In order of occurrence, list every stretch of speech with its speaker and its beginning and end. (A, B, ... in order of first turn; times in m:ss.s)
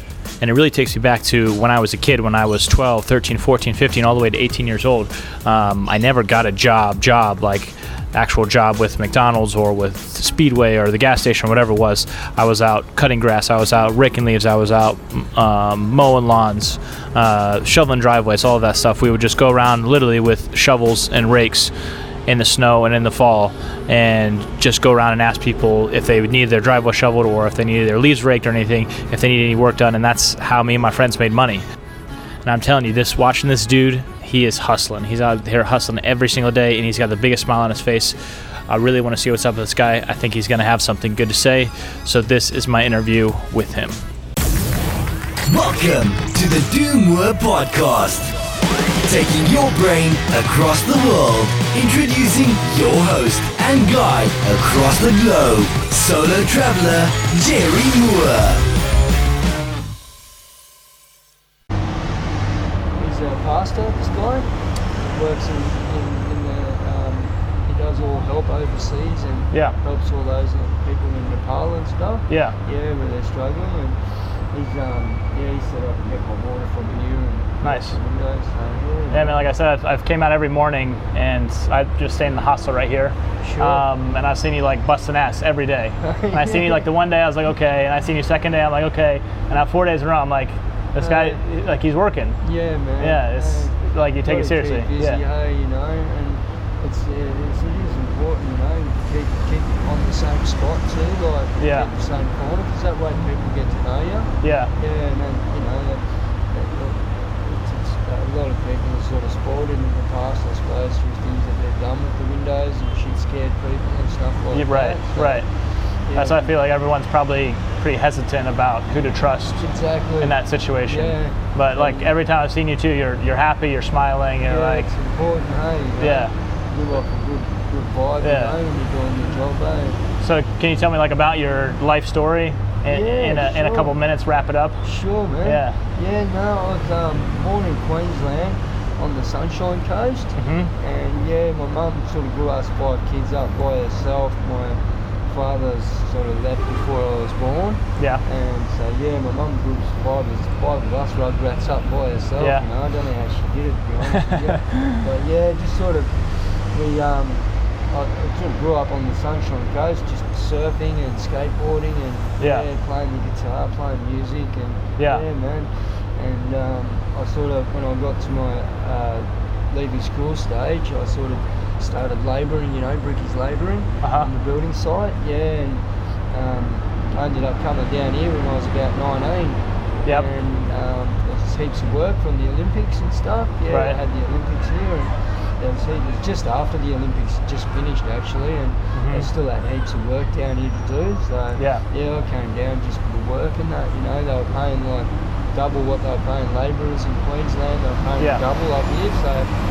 0:00.4-0:21.7 A
0:22.3-0:31.6 A
0:32.4-0:38.2 A
0:38.7-0:44.0 A
0:45.5-0:48.3 B
0:49.0-0:58.6 B
1:03.0-1:14.0 C
1:12.3-1:12.5 A
1:14.5-1:19.5 C
1:17.6-1:18.0 A
1:19.1-1:32.4 A
1:23.4-1:23.9 C
1:26.0-1:26.9 C
1:31.0-1:31.4 C
1:32.4-1:55.4 C
1:33.0-1:35.2 A
1:41.6-1:41.9 A
1:44.4-1:44.7 A
1:54.5-1:55.5 A
1:56.1-1:56.5 C
1:56.1-1:59.6 A
1:59.6-2:02.1 C
2:00.2-2:04.9 A
2:04.4-2:10.0 C
2:06.0-2:06.3 A
2:08.2-2:08.6 A
2:10.2-2:14.8 A
2:12.8-2:14.0 C
2:14.8-3:19.5 C
2:15.4-2:15.8 A
2:20.4-2:20.7 A
2:28.0-2:28.2 A
2:32.4-2:32.6 A
2:34.2-2:35.0 A
2:42.4-2:42.6 A
2:45.0-2:45.2 A
2:54.0-2:54.3 A
3:03.7-3:04.0 A
3:08.9-3:09.3 A
3:11.6-3:11.8 A